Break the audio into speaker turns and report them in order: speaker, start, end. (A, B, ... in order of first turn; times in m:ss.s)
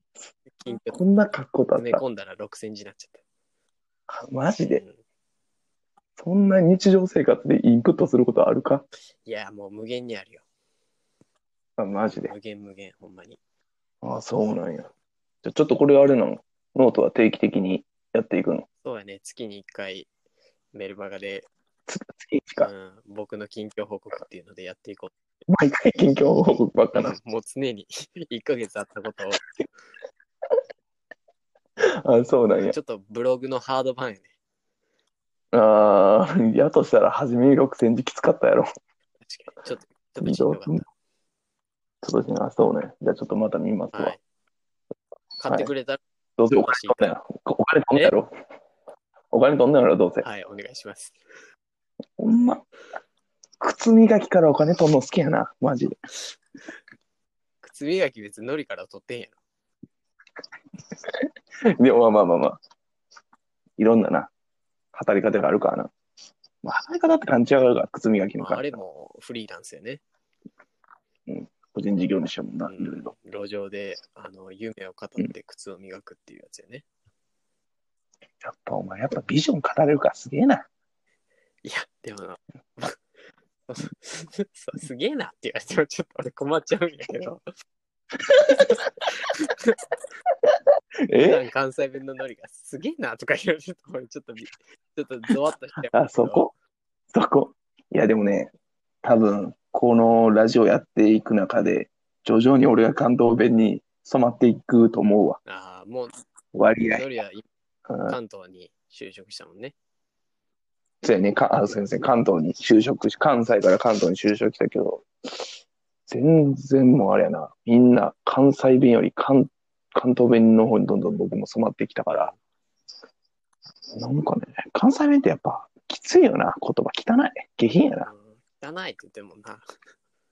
0:00.5-0:01.0 A
0:00.9-0:02.0 B
0:01.7-0:03.2 A
0:04.1-0:04.8 B
0:04.5-0:05.0 A
0:06.2-0:08.8 B
0:09.2-0:10.4 A
0:11.8-0:12.3 B
0:12.1-0:13.4 A
0:14.0-0:14.9 B
0:15.4-0:18.6 B
0:18.8-0:20.1 A
0:20.7-0:21.5 A
0:21.9-0:22.7 B
0:22.6-0:25.1 A
0:25.5-0:27.1 B
0:26.9-0:29.4 A
0:31.8-0:32.8 B
0:32.6-0:34.3 A
0:35.5-0:38.7 B
0:39.2-0:40.9 A
0:40.2-0:40.8 B
0:42.0-0:44.1 B
0:43.9-0:44.2 A
0:45.4-0:46.0 A
0:46.4-0:48.3 B
0:46.6-0:47.1 A
0:49.3-0:50.2 B
0:50.2-0:51.2 A
0:52.2-0:52.6 B
0:53.6-0:56.0 B
0:57.6-0:59.4 A
1:01.0-1:02.6 B
1:03.8-1:04.3 B
1:04.9-1:05.9 B
1:06.6-1:08.8 B
1:08.4-1:10.0 A
1:11.3-1:13.1 B
1:12.6-1:16.8 A
1:18.4-1:20.6 B
1:21.6-1:23.0 A
1:23.7-1:27.4 A
1:28.3-1:28.8 B
1:28.5-1:29.8 A
1:31.1-1:31.4 B
1:31.2-1:36.5 A
1:35.9-1:36.5 B
1:37.1-1:45.4 B
1:45.4-1:46.2 A
1:46.5-1:47.0 B
1:46.9-1:47.5 A
1:47.9-1:48.1 B
1:48.0-1:49.7 A
1:51.0-1:55.4 B
1:56.1-2:02.3 B
2:02.1-2:02.4 A
2:03.9-2:08.1 B
2:08.0-2:09.7 A